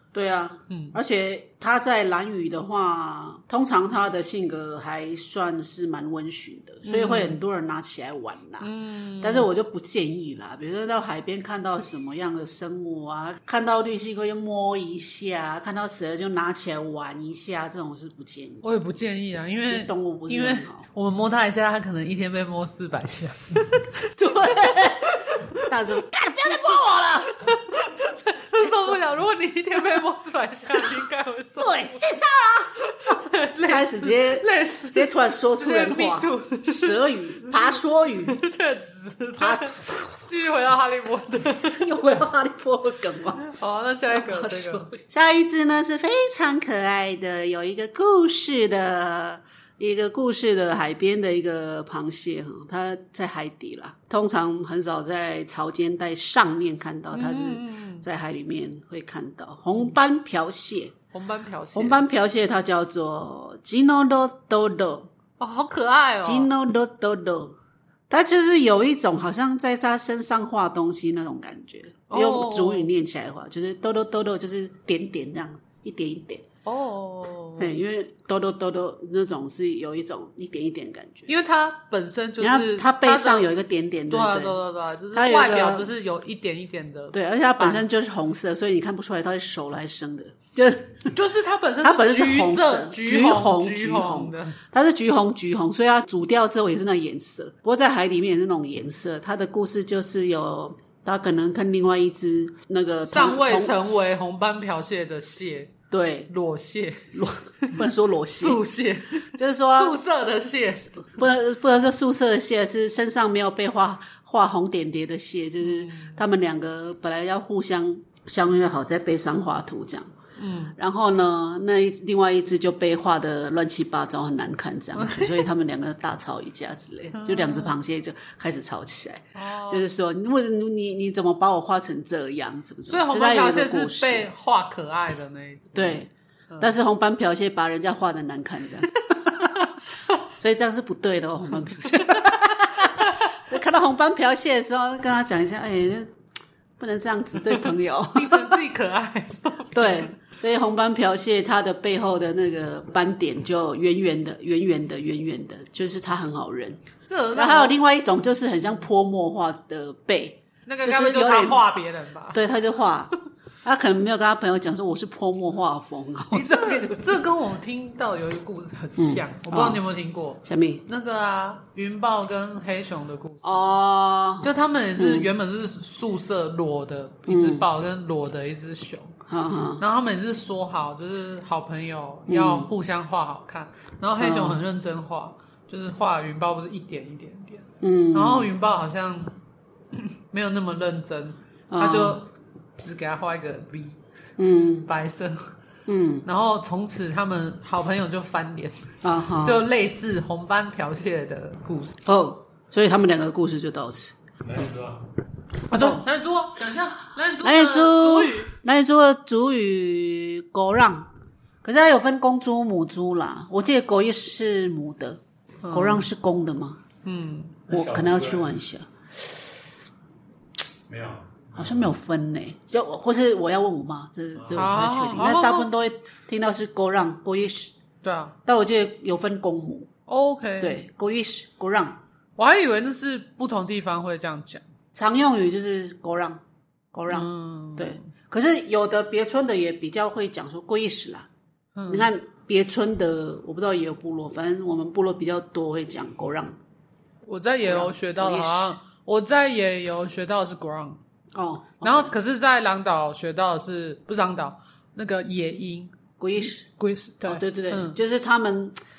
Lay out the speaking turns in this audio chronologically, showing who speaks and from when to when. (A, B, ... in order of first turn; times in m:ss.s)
0:00.1-0:18.6 A
0:00.7-0:01.0 B
0:06.8-0:07.4 B
0:08.6-0:09.5 B
0:18.6-0:25.6 B
0:19.7-0:20.8 A
0:24.2-0:27.4 A
0:27.4-0:32.0 B
0:28.6-0:29.0 A
0:31.6-0:38.4 A
0:32.9-0:41.8 B
0:39.4-0:40.6 A
0:41.4-0:43.4 A
0:43.4-0:44.9 B
0:44.1-1:01.0 A
0:57.1-0:58.1 B
1:01.1-1:02.0 B
1:01.7-1:05.1 A
1:05.4-1:06.5 B
1:06.2-1:07.6 A
1:08.1-1:16.4 A
1:12.1-1:12.9 B
1:16.6-1:17.8 B
1:17.6-1:21.3 A
1:21.3-1:23.5 B
1:22.4-1:24.6 A
1:24.1-1:27.8 B
1:25.1-1:25.9 A
1:27.1-1:31.1 A
1:31.1-1:34.6 B
1:31.8-1:43.8 A
1:43.0-1:45.8 B
1:45.9-1:46.3 A
1:46.3-1:47.1 B
1:47.1-1:48.6 A
1:48.3-1:51.0 B
1:49.4-1:50.0 A
1:51.0-2:00.1 A
1:55.6-1:56.2 B
2:00.4-2:00.8 B
2:00.8-2:14.3 A
2:05.0-2:05.4 B
2:07.1-2:07.8 B
2:09.4-2:09.9 B
2:12.9-2:16.0 B
2:15.7-2:19.6 A
2:20.4-2:26.1 A
2:26.8-2:28.6 A
2:28.1-2:30.1 B
2:29.7-2:36.8 A
2:37.1-2:37.8 B
2:37.3-2:41.8 A
2:40.7-2:42.4 B
2:42.3-2:47.2 A
2:46.3-2:53.8 B
2:49.0-2:49.8 A
2:50.4-2:50.8 A
2:53.4-2:55.3 A
2:54.4-2:59.1 B
2:57.3-2:57.7 A
2:59.3-2:59.8 A
2:59.8-3:09.4 B
3:02.3-3:02.7 A
3:04.2-3:04.6 A
3:07.8-3:08.5 A
3:10.0-3:14.0 B
3:11.7-3:12.2 A
3:14.4-3:14.9 A
3:14.8-3:15.5 B
3:15.9-3:16.3 A
3:16.2-3:18.9 B
3:19.0-3:19.7 A
3:19.4-3:22.0 B
3:22.1-3:24.2 A
3:24.4-3:25.0 C
3:25.7-3:26.0 A
3:25.7-3:28.5 B
3:27.4-3:31.1 A
3:31.6-3:36.8 A
3:35.6-3:36.1 B
3:37.0-3:37.6 B
3:37.7-3:38.9 A
3:37.7-3:38.5 C
3:40.9-3:41.9 C
3:41.6-3:47.7 A
3:44.4-3:44.7 C
3:44.6-3:45.7 B
3:48.0-3:48.4 B
3:48.5-3:49.9 A
3:50.1-3:50.8 B
3:50.6-3:52.0 A
3:52.4-3:54.6 B
3:55.0-3:56.4 A
3:56.9-4:01.3 A
3:57.1-3:58.0 B
4:01.8-4:02.1 B
4:01.9-4:06.5 A
4:07.2-4:11.0 B
4:07.6-4:08.8 A
4:11.3-4:12.2 A
4:11.8-4:18.0 B
4:16.2-4:16.7 A
4:17.2-4:18.8 A